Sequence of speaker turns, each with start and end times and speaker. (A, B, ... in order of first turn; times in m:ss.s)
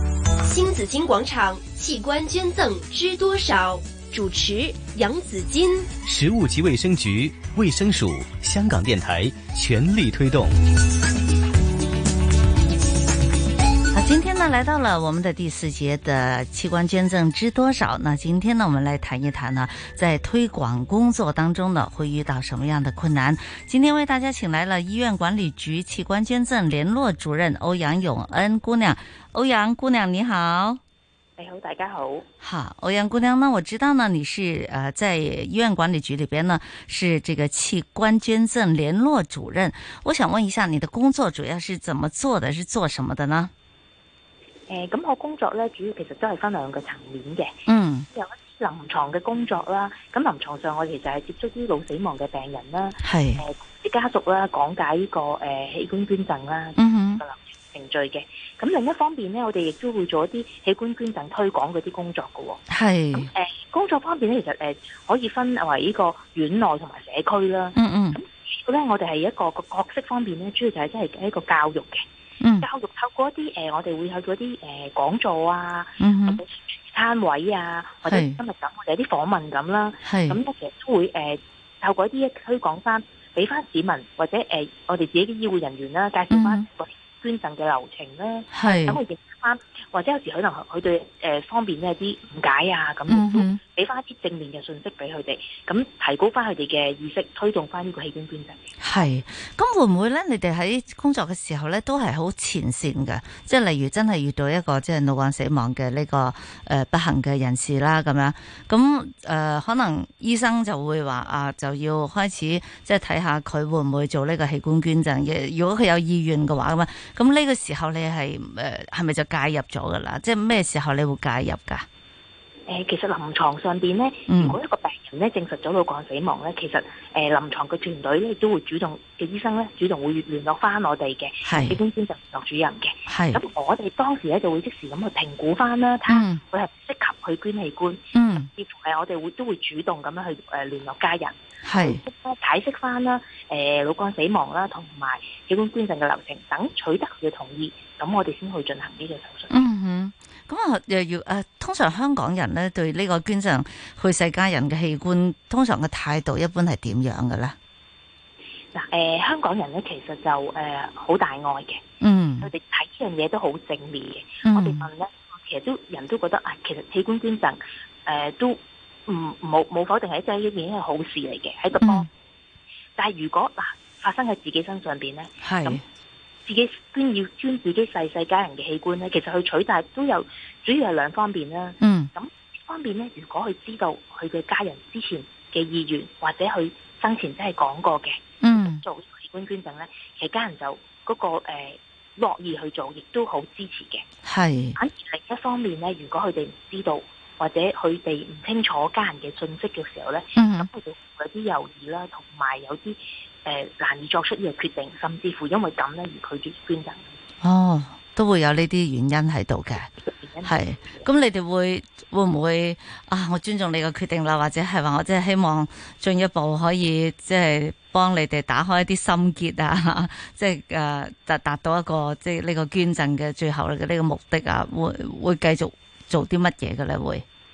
0:00.4-0:05.9 A
0:06.0-0:10.6 B
0:13.9-0:30.8 C
0:31.4-0:32.3 D
0:32.4-0:43.5 C
0:44.7-1:02.6 D
0:47.7-0:48.1 C
0:53.0-0:53.4 C
0:56.8-0:57.2 C
1:02.7-1:03.3 C
1:03.1-1:12.0 D
1:07.8-1:08.2 C
1:12.4-1:12.7 C
1:12.6-1:38.6 D
1:16.0-1:16.4 C
1:18.1-1:18.4 C
1:20.0-1:20.4 C
1:26.3-1:26.6 C
1:28.5-1:29.0 C
1:33.1-1:33.6 C
1:38.8-2:01.9 C
2:02.7-2:29.6 D
2:04.3-2:04.6 C
2:11.4-2:11.8 C
2:13.1-2:13.4 C
2:16.1-2:16.4 C
2:18.1-2:18.5 C
2:21.6-2:22.0 C
2:29.5-2:37.6 C
2:38.7-2:41.8 D
2:42.0-2:42.5 C
2:42.4-2:52.1 D
2:44.4-2:44.9 C
2:51.8-2:52.1 C
2:53.0-2:55.8 D
2:55.4-2:55.8 C
2:56.5-3:14.1 D
3:01.8-3:02.1 C
3:08.4-3:08.8 C
3:14.2-3:14.8 C
3:14.8-3:27.1 D
3:20.4-3:20.7 C
3:27.4-3:29.9 C
3:30.0-3:31.1 D
3:30.4-3:47.2 C